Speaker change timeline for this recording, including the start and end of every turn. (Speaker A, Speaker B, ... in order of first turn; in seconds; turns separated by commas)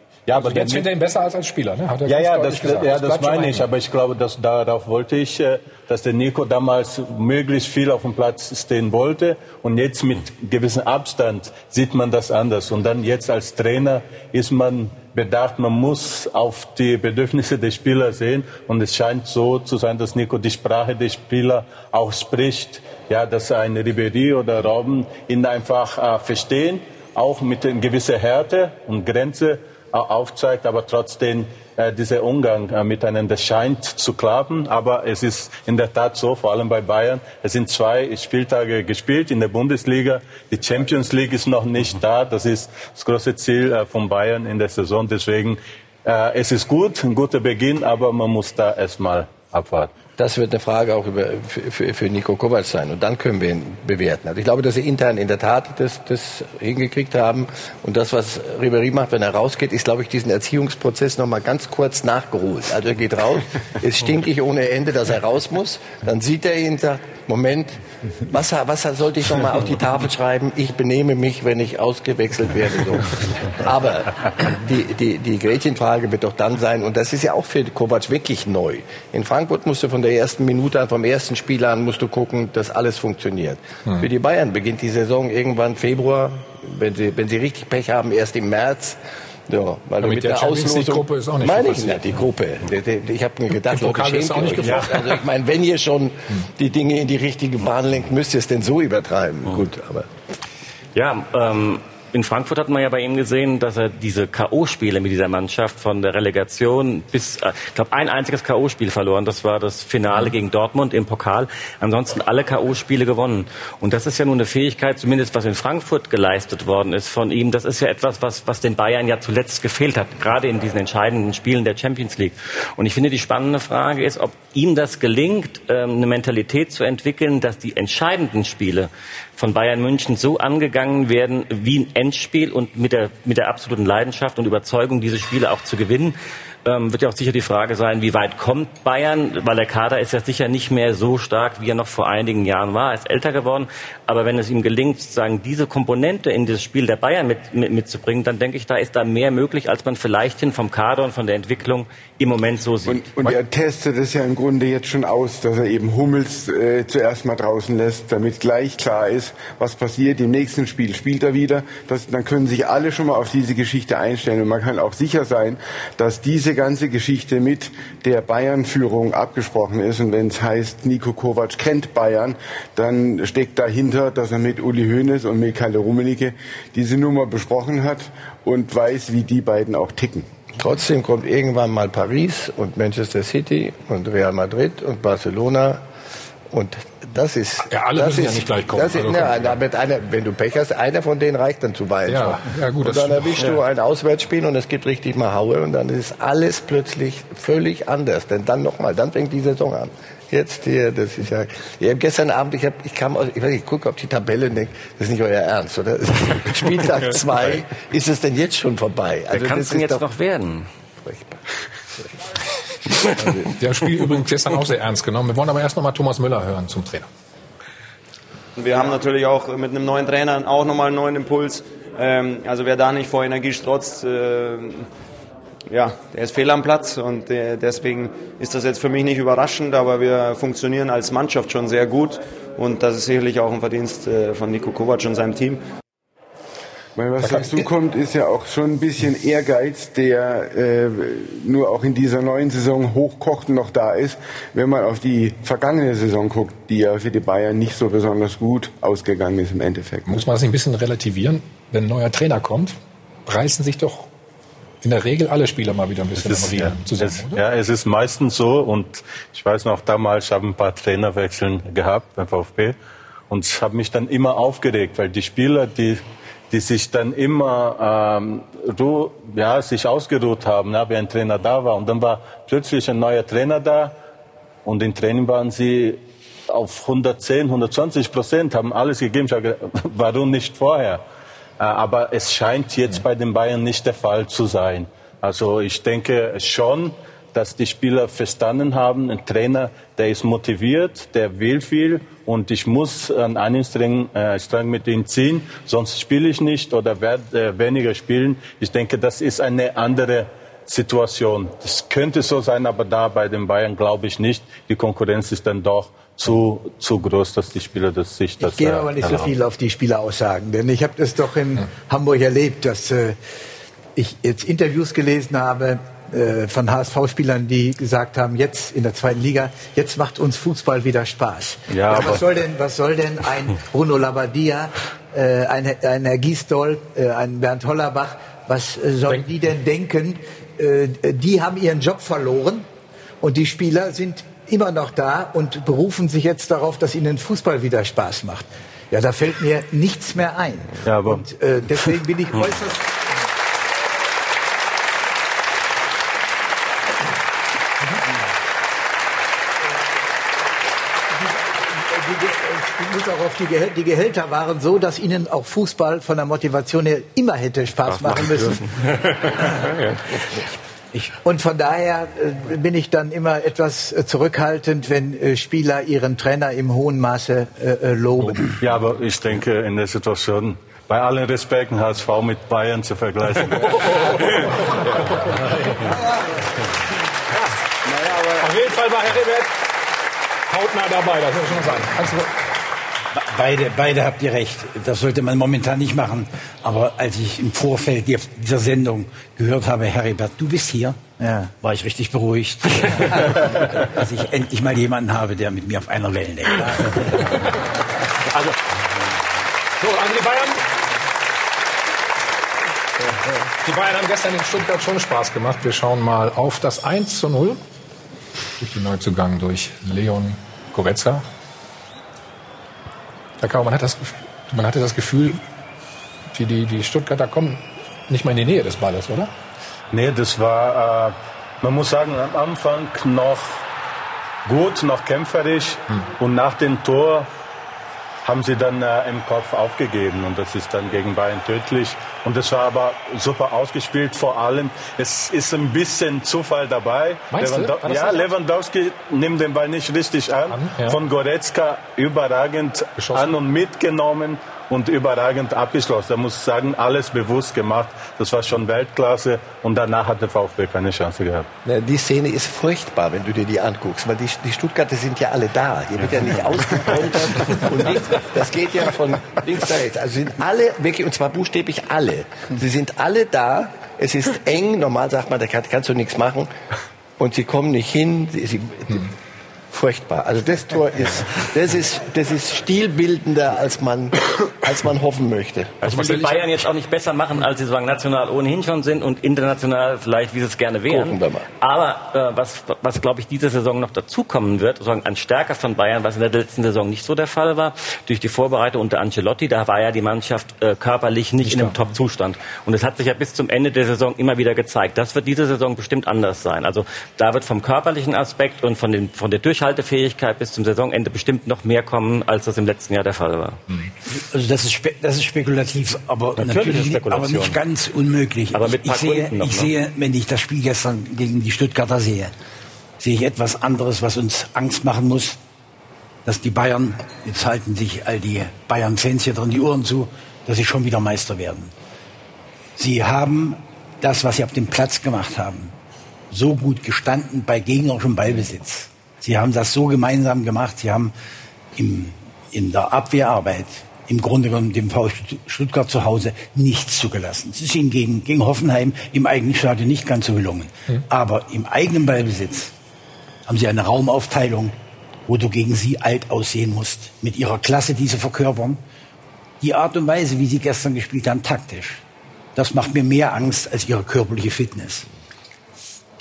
Speaker A: 0.3-0.9, Speaker B: 0.3-3.7, Speaker A: 2.1-49.9, Speaker C: 50.2-100.1, Speaker B: 90.0-92.2, Speaker B: 93.7-95.2, Speaker D: 101.0-153.0, Speaker E: 152.8-180.3, Speaker C: 180.6-185.8, Speaker C: 186.5-210.1, Speaker B: 187.7-189.6, Speaker B: 192.1-193.6, Speaker D: 209.3-210.7, Speaker C: 211.1-211.3, Speaker B: 213.3-217.1, Speaker F: 218.6-224.9, Speaker F: 225.7-235.6, Speaker E: 237.0-250.2, Speaker B: 237.2-237.7, Speaker B: 250.1-254.1, Speaker B: 254.8-257.4, Speaker A: 256.3-262.8, Speaker A: 263.3-274.0, Speaker A: 274.6-281.0, Speaker A: 281.6-309.4, Speaker G: 308.4-313.2, Speaker G: 314.0-332.7, Speaker A: 321.7-322.3, Speaker G: 333.2-343.0, Speaker A: 340.9-341.2, Speaker G: 351.9-358.6, Speaker G: 361.2-368.4, Speaker A: 368.6-374.5, Speaker B: 373.4-375.8, Speaker B: 377.3-379.6, Speaker B: 380.5-382.4, Speaker H: 383.1-391.0, Speaker G: 391.2-391.5, Speaker H: 391.6-397.2, Speaker B: 399.8-400.6, Speaker B: 403.6-407.6, Speaker B: 408.6-411.2, Speaker B: 413.4-415.4, Speaker B: 416.3-419.3, Speaker A: 419.9-423.7, Speaker A: 424.4-427.3, Speaker A: 428.2-451.5, Speaker B: 437.3-438.3, Speaker B: 440.5-441.0, Speaker B: 443.0-443.3, Speaker C: 451.6-466.5, Speaker C: 467.2-469.1, Speaker C: 469.7-475.8, Speaker D: 475.8-503.6, Speaker B: 475.9-476.6, Speaker C: 480.9-481.5, Speaker B: 491.4-491.9, Speaker H: 504.1-512.3, Speaker D: 506.4-507.6, Speaker D: 508.5-509.7, Speaker H: 513.0-515.4, Speaker H: 516.2-521.7, Speaker H: 522.8-525.7, Speaker H: 526.3-531.1, Speaker H: 531.8-542.7, Speaker H: 543.5-544.8, Speaker H: 545.3-548.8, Speaker H: 549.6-552.0, Speaker H: 552.6-555.1